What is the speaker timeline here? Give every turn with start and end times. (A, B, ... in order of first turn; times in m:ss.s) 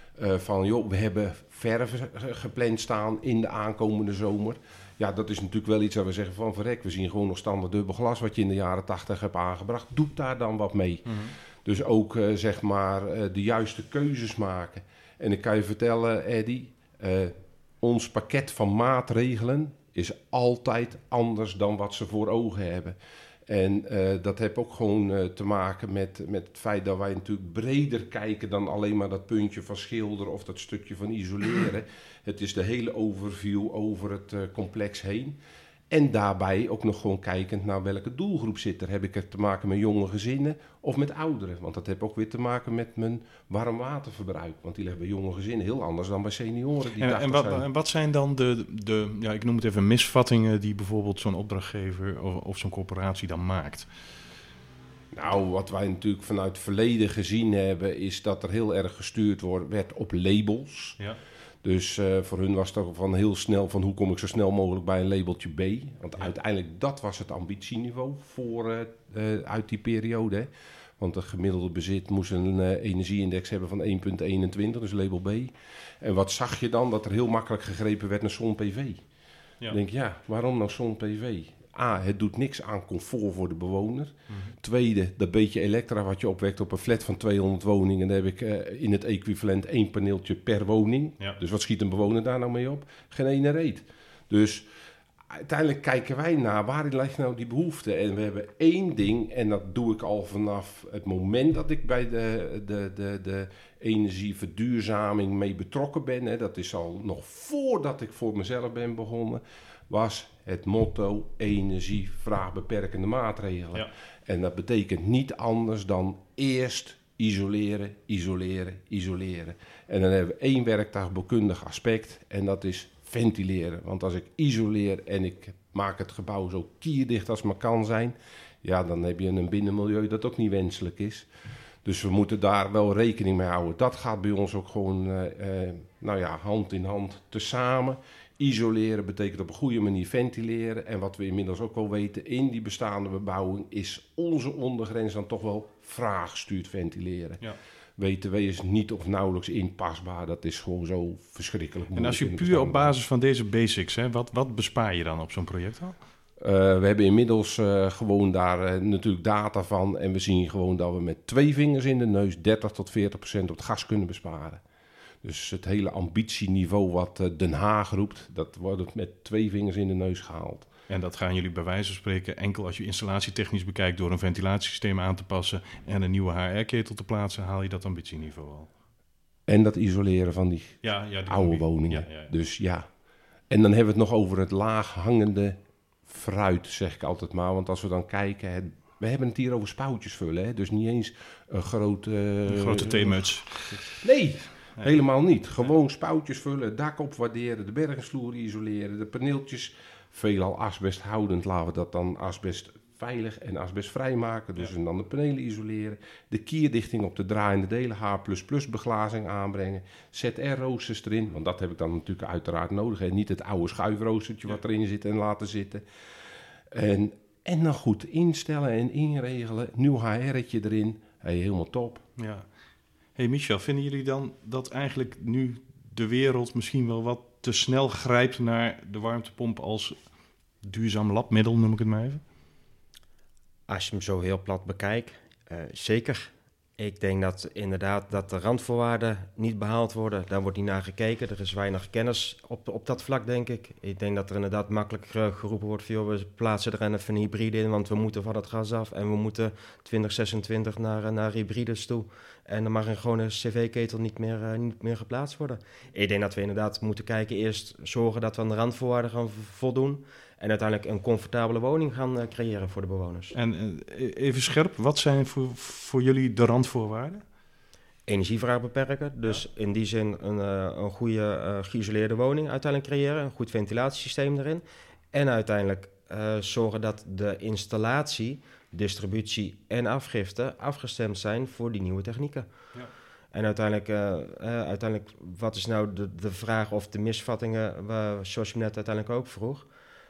0:00.2-0:23.0 A
0:11.1-0:11.3 B
0:23.5-0:35.4 A
0:35.9-0:47.6 A
0:47.0-0:53.9 B
0:55.1-1:01.0 A
1:01.6-1:19.0 A
1:19.7-1:34.6 A
1:35.3-2:11.3 A
2:11.8-2:27.4 A
2:28.0-2:32.9 A
2:32.0-2:36.0 B
2:36.4-2:44.6 A
2:45.2-2:50.7 A
2:50.9-2:58.7 B
2:59.5-3:02.9 A
3:00.8-3:02.3 B
3:03.5-3:35.8 A
3:12.5-3:14.0 B
3:36.7-3:42.0 A
3:42.2-3:42.5 B
3:43.2-3:50.0 B
3:50.6-3:52.2 B
3:53.7-4:23.4 C
4:23.3-4:27.2 B
4:28.1-4:42.5 C
4:43.3-4:49.7 C